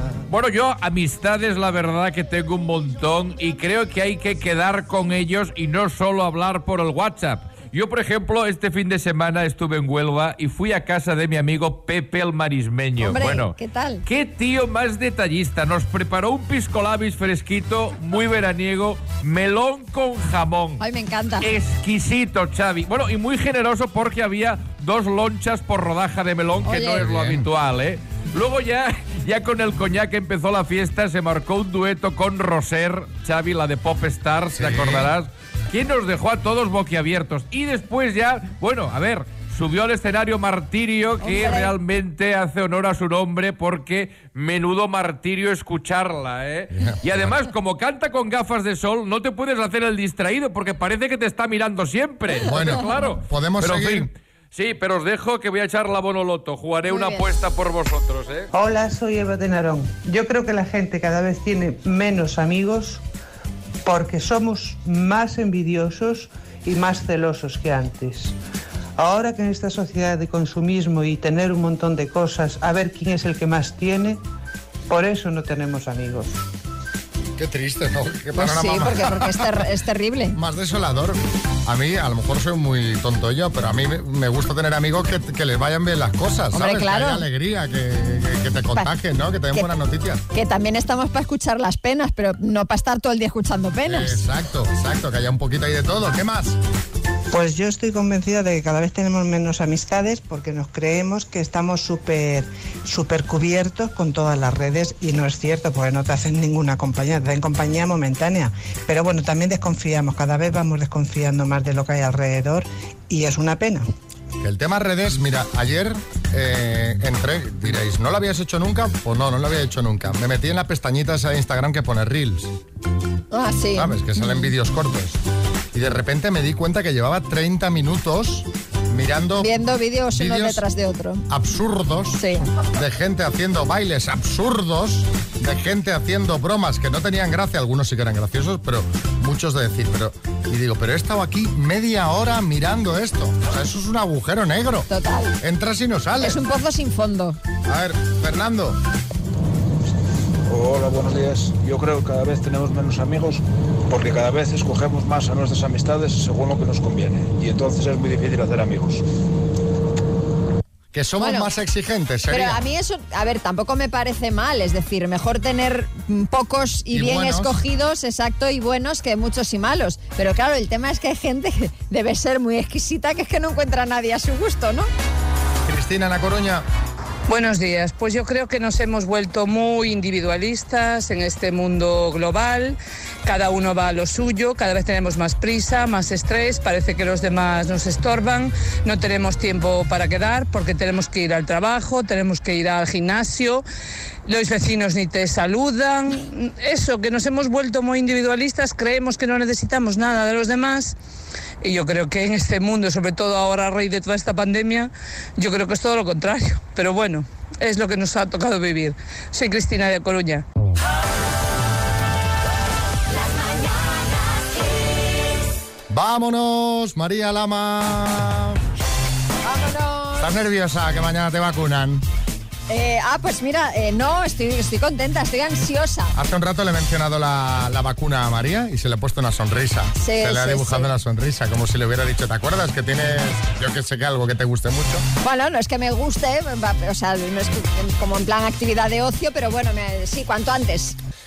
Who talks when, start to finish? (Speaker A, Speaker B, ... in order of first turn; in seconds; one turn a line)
Speaker A: 0.3-13.5
Speaker B: 13.0-14.0
Speaker A: 14.1-20.8
Speaker B: 20.8-21.5
Speaker A: 21.4-58.5
Speaker B: 26.6-27.0
Speaker C: 27.0-27.4
Speaker C: 34.5-35.1
Speaker B: 41.3-41.7
Speaker C: 46.7-47.4
Speaker C: 52.4-54.1
Speaker B: 56.9-57.2
Speaker D: 58.5-63.0
Speaker D: 63.9-68.3
Speaker D: 69.0-74.2
Speaker D: 74.9-76.3
Speaker C: 77.4-79.7
Speaker B: 78.3-80.4
Speaker C: 80.3-90.2
Speaker B: 86.5-87.2
Speaker B: 90.3-94.2
Speaker C: 93.8-96.6
Speaker D: 97.3-113.9
Speaker C: 114.4-122.5
Speaker B: 123.3-124.5
Speaker C: 123.8-129.5
Speaker B: 129.4-131.2
Speaker C: 130.1-130.6
Speaker C: 131.3-144.9
Speaker B: 132.1-132.4
Speaker B: 144.9-145.4
Speaker C: 145.4-146.4
Speaker B: 146.2-147.4
Speaker C: 147.7-148.8
Speaker E: 150.5-159.0
Speaker C: 160.9-162.6
Speaker B: 161.2-161.5
Speaker B: 162.3-174.9
Speaker C: 166.9-167.6
Speaker C: 175.7-176.7
Speaker F: 177.3-193.6
Speaker F: 194.2-200.9
Speaker F: 201.6-210.4
Speaker C: 215.9-218.6
Speaker B: 219.4-220.3
Speaker C: 220.2-222.0
Speaker B: 222.7-226.1
Speaker C: 226.1-235.1
Speaker B: 230.0-230.9
Speaker B: 235.2-241.0